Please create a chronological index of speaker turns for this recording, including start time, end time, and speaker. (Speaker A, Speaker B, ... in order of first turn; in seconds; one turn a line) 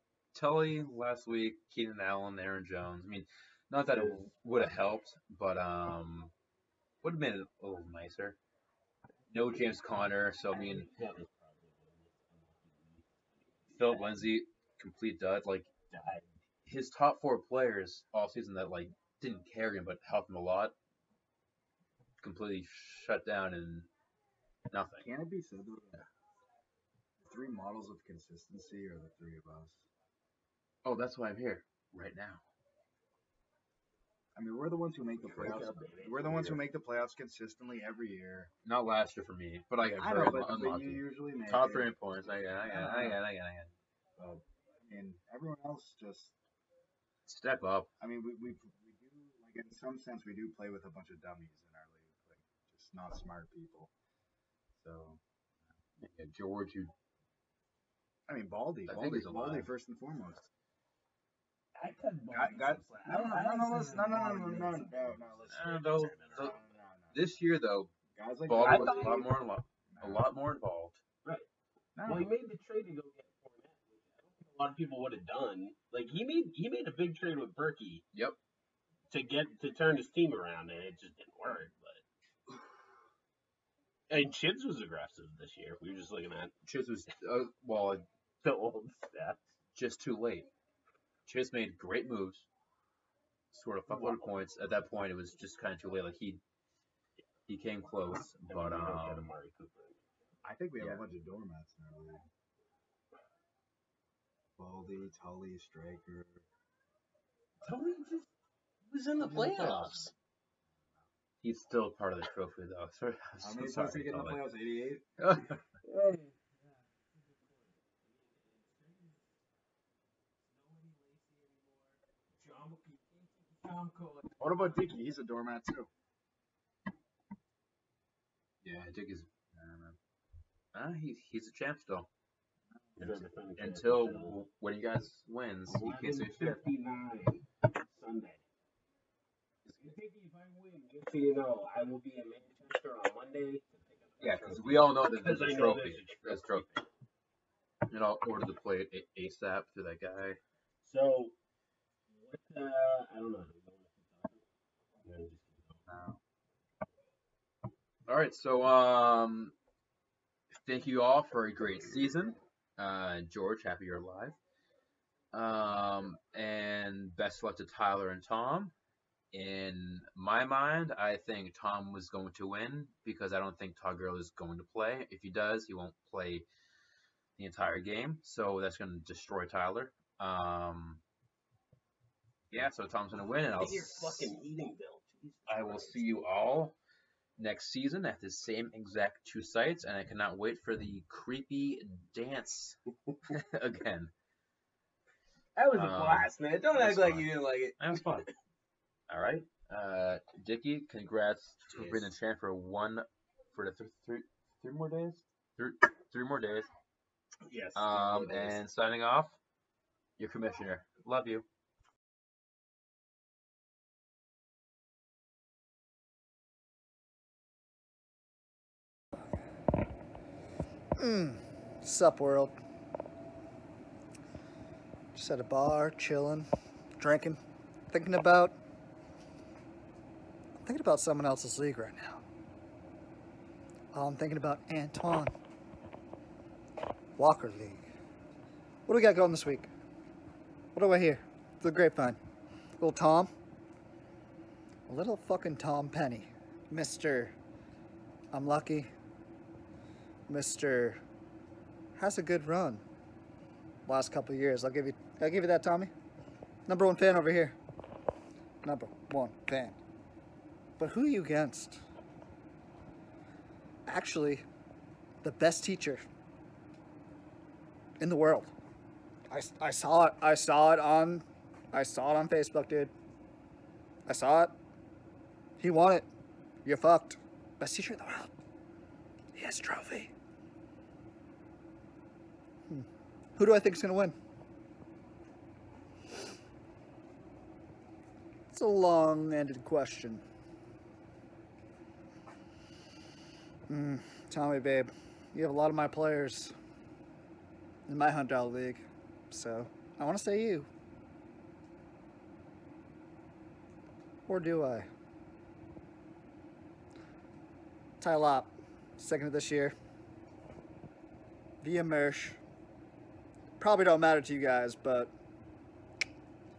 Speaker A: 0.3-6.3
Speaker B: 3.9-4.4
Speaker A: 7.0-8.4
Speaker A: 9.3-10.9
Speaker B: 10.5-14.4
Speaker A: 13.8-15.7
Speaker B: 15.9-16.3
Speaker A: 16.7-20.8
Speaker A: 22.2-23.9
Speaker A: 24.7-25.1
Speaker C: 25.0-26.0
Speaker C: 27.2-29.8
Speaker A: 30.8-32.4
Speaker C: 34.4-38.5
Speaker B: 35.3-36.6
Speaker A: 35.3-35.6
Speaker A: 38.6-43.7
Speaker C: 39.8-43.2
Speaker C: 44.2-46.3
Speaker A: 47.3-47.9
Speaker C: 48.0-53.9
Speaker C: 54.8-55.2
Speaker A: 56.0-56.9
Speaker C: 58.3-60.5
Speaker A: 58.9-59.7
Speaker B: 61.8-66.7
Speaker C: 62.3-67.3
Speaker A: 65.5-66.6
Speaker A: 67.1-67.9
Speaker C: 68.1-70.3
Speaker A: 68.5-71.0
Speaker B: 68.6-69.2
Speaker C: 72.0-72.3
Speaker B: 72.0-78.0
Speaker B: 79.1-82.0
Speaker B: 84.1-86.5
Speaker A: 86.7-88.1
Speaker B: 88.4-89.4
Speaker A: 89.8-90.5
Speaker A: 91.3-92.5
Speaker A: 93.5-96.4
Speaker B: 93.9-94.3
Speaker A: 97.5-99.3
Speaker B: 98.4-100.3
Speaker C: 100.4-102.2
Speaker C: 104.6-106.5
Speaker B: 107.6-108.3
Speaker B: 108.9-110.1
Speaker A: 109.2-110.0
Speaker A: 111.4-114.4
Speaker C: 113.4-115.1
Speaker A: 115.2-115.6
Speaker B: 115.8-119.4
Speaker B: 120.5-124.7
Speaker C: 124.4-125.9
Speaker A: 128.6-129.3
Speaker C: 129.5-130.0
Speaker A: 130.7-132.1
Speaker C: 132.8-133.3
Speaker B: 133.0-134.4
Speaker A: 133.6-136.6
Speaker B: 135.7-138.5
Speaker A: 139.7-139.9
Speaker B: 139.8-146.8
Speaker A: 144.2-146.7
Speaker A: 147.9-150.4
Speaker B: 150.8-151.3
Speaker B: 152.1-154.4
Speaker B: 155.0-155.8
Speaker A: 158.1-159.5
Speaker A: 160.6-164.4
Speaker A: 165.3-168.7
Speaker A: 169.3-176.5
Speaker A: 177.4-181.0
Speaker A: 182.5-184.3
Speaker B: 183.2-186.2
Speaker A: 185.5-186.8
Speaker A: 187.4-192.8
Speaker A: 193.3-194.1
Speaker B: 195.6-198.3
Speaker A: 195.7-198.3
Speaker A: 199.1-206.7
Speaker B: 201.7-202.1
Speaker B: 207.4-208.6
Speaker A: 207.8-209.4
Speaker A: 210.2-211.5
Speaker D: 221.0-222.6
Speaker D: 225.2-227.4
Speaker D: 227.9-228.6
Speaker D: 230.6-232.2
Speaker D: 233.9-235.3
Speaker D: 237.2-237.8
Speaker D: 238.9-239.7
Speaker D: 240.8-242.2
Speaker D: 242.8-243.3
Speaker D: 244.9-247.3
Speaker D: 248.3-248.9
Speaker D: 250.3-251.0
Speaker D: 252.0-252.8
Speaker D: 253.9-255.9
Speaker D: 256.7-257.6
Speaker D: 258.6-259.8
Speaker D: 260.8-261.8
Speaker D: 263.9-264.4
Speaker D: 265.2-266.0
Speaker D: 268.0-268.5
Speaker D: 269.3-272.9
Speaker D: 274.1-274.5
Speaker D: 275.6-276.1
Speaker D: 276.6-278.3
Speaker D: 279.4-280.1
Speaker D: 283.4-284.1
Speaker D: 288.5-290.2
Speaker D: 293.7-296.5
Speaker D: 297.9-300.7
Speaker D: 304.3-304.9
Speaker D: 308.0-309.7
Speaker D: 311.6-312.4
Speaker D: 313.6-315.1